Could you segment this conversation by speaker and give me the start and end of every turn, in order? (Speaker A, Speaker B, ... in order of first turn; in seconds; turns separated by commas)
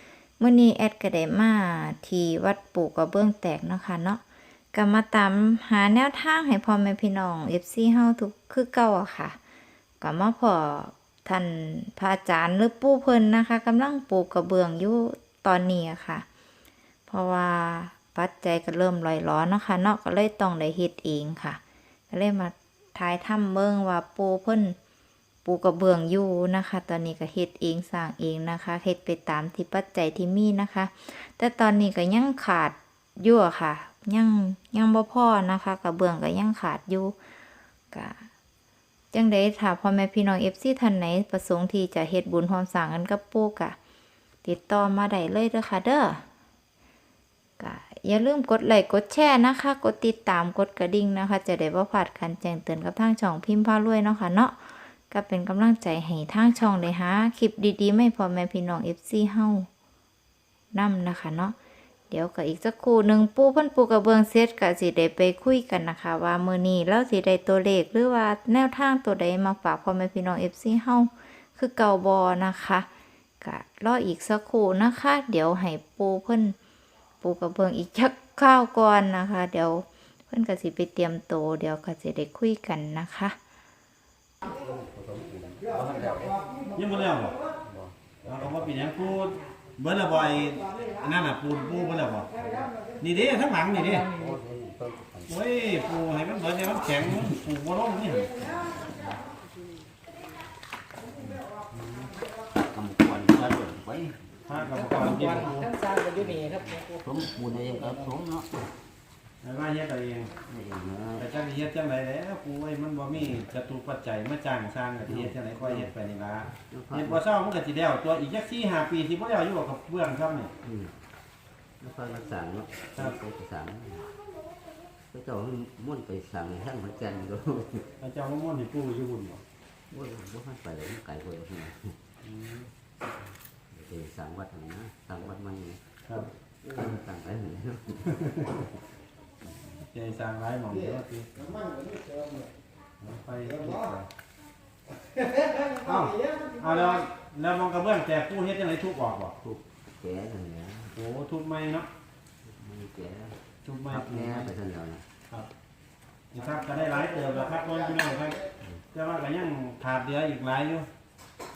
Speaker A: 0.4-4.2, Speaker A: 4.7-9.4, Speaker A: 10.0-16.2, Speaker A: 17.1-21.6, Speaker A: 22.1-24.8, Speaker A: 25.4-37.2, Speaker A: 37.9-38.3, Speaker A: 39.1-43.8, Speaker A: 44.4-46.2, Speaker A: 47.6-59.7, Speaker A: 60.7-61.5, Speaker A: 62.1-72.9, Speaker A: 73.4-76.5, Speaker A: 77.2-83.4, Speaker B: 84.4-86.7, Speaker C: 86.7-87.4, Speaker B: 87.6-88.8, Speaker C: 88.3-92.3, Speaker B: 92.4-92.7, Speaker C: 93.0-94.1, Speaker B: 94.1-95.4, Speaker C: 95.3-98.3, Speaker B: 97.0-97.4, Speaker B: 98.3-99.2, Speaker B: 101.2-101.5, Speaker B: 102.6-104.2, Speaker C: 104.5-105.8, Speaker D: 104.8-106.8, Speaker B: 106.1-108.7, Speaker C: 109.4-110.4, Speaker B: 110.5-111.3, Speaker C: 111.2-120.5, Speaker B: 115.0-115.9, Speaker B: 116.6-117.2, Speaker B: 120.6-120.9, Speaker B: 121.8-124.1, Speaker B: 125.1-127.9, Speaker C: 128.0-129.4, Speaker B: 129.9-132.0, Speaker C: 132.2-132.7, Speaker B: 133.7-135.8, Speaker B: 136.7-138.6, Speaker C: 139.8-141.6, Speaker C: 143.0-144.1, Speaker C: 145.7-149.3, Speaker B: 149.4-150.9, Speaker C: 150.9-151.9, Speaker B: 152.4-155.0, Speaker C: 153.6-154.5, Speaker C: 156.3-158.4, Speaker C: 158.9-160.9